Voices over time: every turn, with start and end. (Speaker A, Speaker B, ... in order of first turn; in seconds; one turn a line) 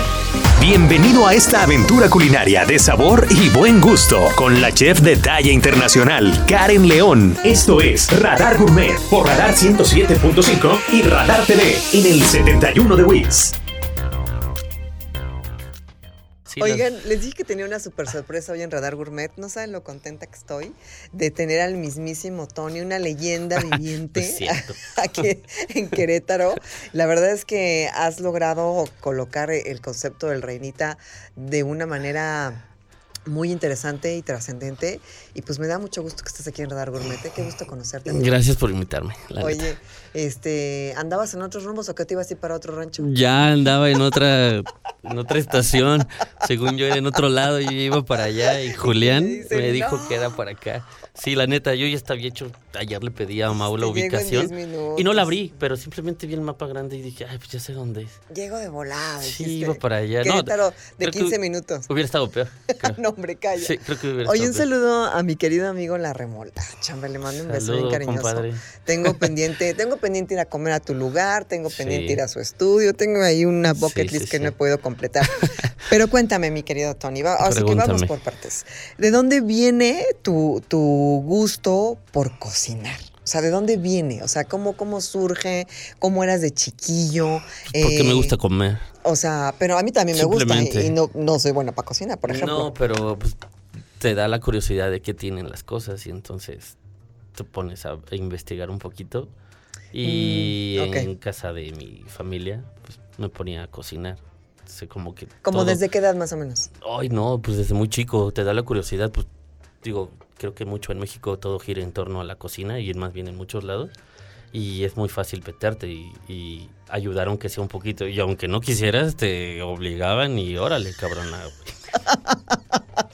Speaker A: 0.6-13.6
Speaker B: 16.5-16.9
Speaker C: 16.6-32.6
Speaker B: 23.7-24.9
Speaker C: 33.3-38.3
Speaker B: 38.1-39.7
Speaker C: 39.4-43.1
Speaker B: 43.0-58.2
Speaker C: 48.6-50.4
Speaker C: 53.8-55.4
Speaker C: 58.3-61.9
Speaker B: 59.2-63.0
Speaker C: 62.8-88.3
Speaker B: 63.6-64.7
Speaker B: 67.3-69.3
Speaker B: 71.7-72.2
Speaker B: 73.7-74.5
Speaker B: 75.3-75.8
Speaker B: 77.4-78.1
Speaker B: 87.7-88.9
Speaker C: 89.0-92.7
Speaker B: 90.1-91.0
Speaker B: 92.3-93.4
Speaker B: 94.0-96.8
Speaker B: 97.3-99.3
Speaker B: 99.9-105.8
Speaker C: 100.0-101.1
Speaker C: 105.4-106.7
Speaker B: 106.7-109.3
Speaker B: 109.8-113.9
Speaker B: 114.5-121.8
Speaker C: 122.0-122.8